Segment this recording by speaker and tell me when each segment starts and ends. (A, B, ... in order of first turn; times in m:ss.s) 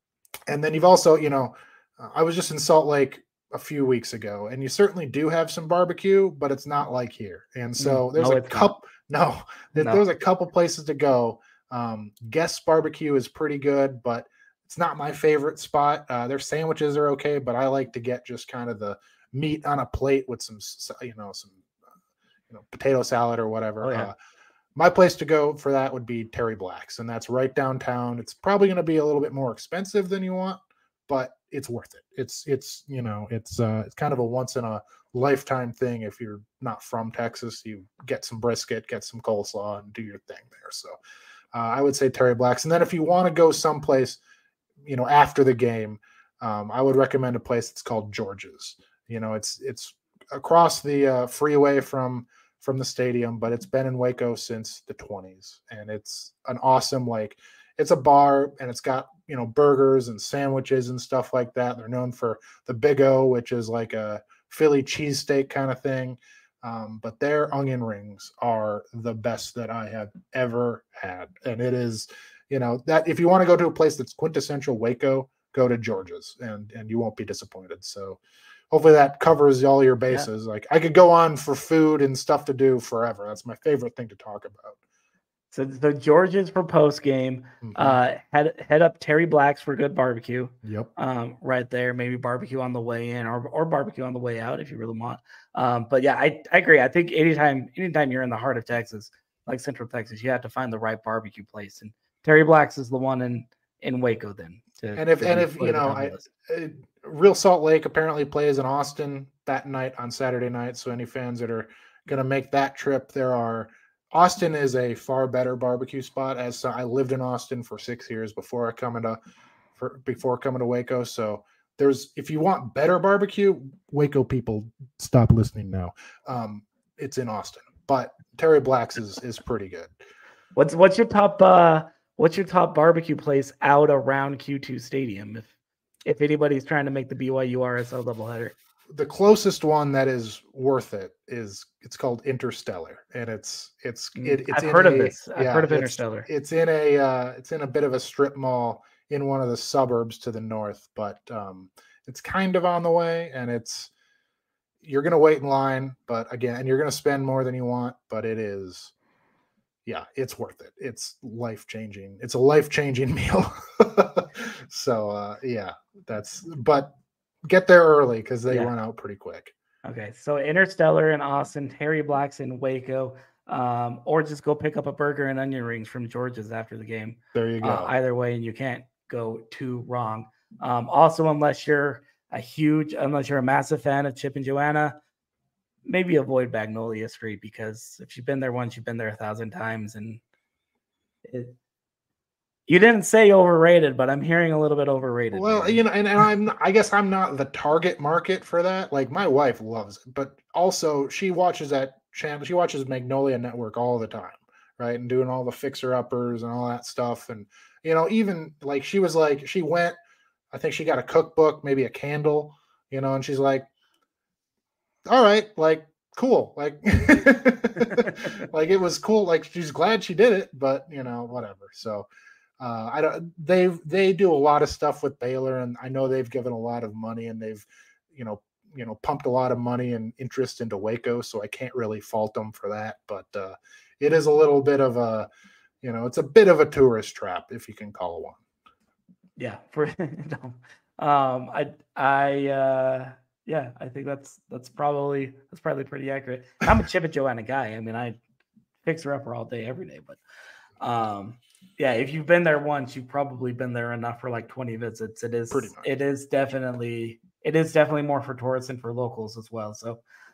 0:00.5-0:21.6 A
0:07.8-0:08.7 B
0:22.5-0:24.2 A
0:23.8-0:24.1 B
0:24.8-0:41.0 A
0:41.5-0:44.2 A
0:44.8-1:18.2 A
1:18.7-1:24.8 A
1:25.5-1:46.3 B
1:27.6-1:28.0 A
1:30.6-1:30.9 A
1:45.0-1:59.2 A
1:59.8-2:10.0 A
2:10.6-2:15.5 B
2:16.1-2:18.6 B
2:18.9-2:33.9 A
2:24.2-2:26.3 B
2:34.8-2:38.9 A
2:39.9-2:46.9 A
2:47.4-2:49.5 A
2:49.8-3:05.0 B
2:57.3-2:57.9 A
3:05.9-3:10.2 B
3:11.3-3:11.6 B
3:12.7-3:15.8 B
3:15.3-3:30.0 A
3:30.5-3:33.7 A
3:35.1-3:42.1 A
3:42.6-3:55.3 A
3:55.8-3:58.4 A
3:59.4-4:08.2 B
4:08.8-4:10.2 B
4:10.8-4:20.0 B
4:15.5-4:15.9 A